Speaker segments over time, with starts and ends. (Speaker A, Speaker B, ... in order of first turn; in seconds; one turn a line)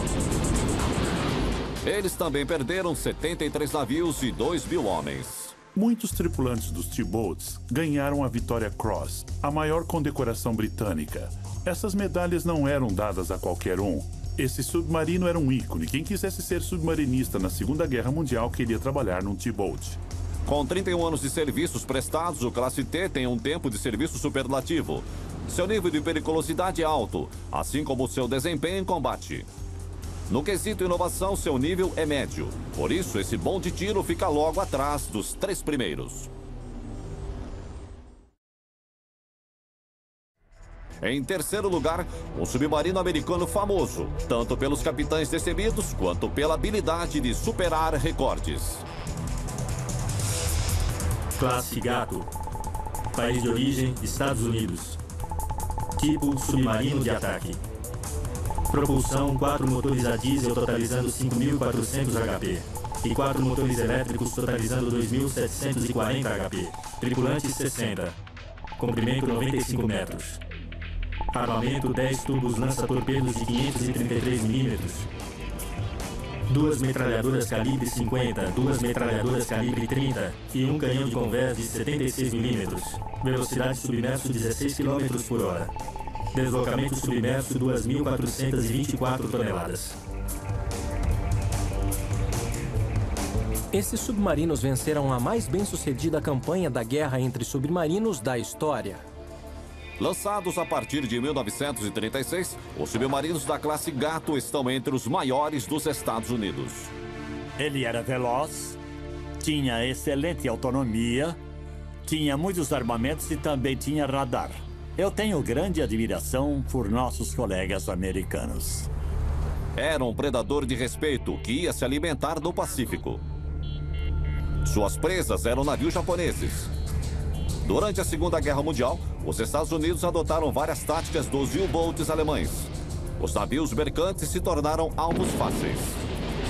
Speaker A: 1.8-5.5
Speaker B: 5.7-20.0
Speaker A: 20.4-29.5
Speaker A: 30.3-36.3
Speaker A: 41.0-48.8
Speaker C: 51.4-52.3
Speaker C: 53.1-55.0
Speaker C: 56.0-57.6
Speaker C: 58.7-68.2
Speaker C: 68.8-70.4
Speaker C: 71.3-75.1
Speaker C: 76.5-85.7
Speaker C: 86.3-90.0
Speaker D: 93.7-99.0
Speaker A: 100.0-106.9
Speaker E: 107.6-108.8
Speaker E: 109.4-111.4
Speaker E: 112.0-118.9
Speaker A: 119.8-123.2
Speaker A: 124.6-126.7
Speaker A: 127.6-136.0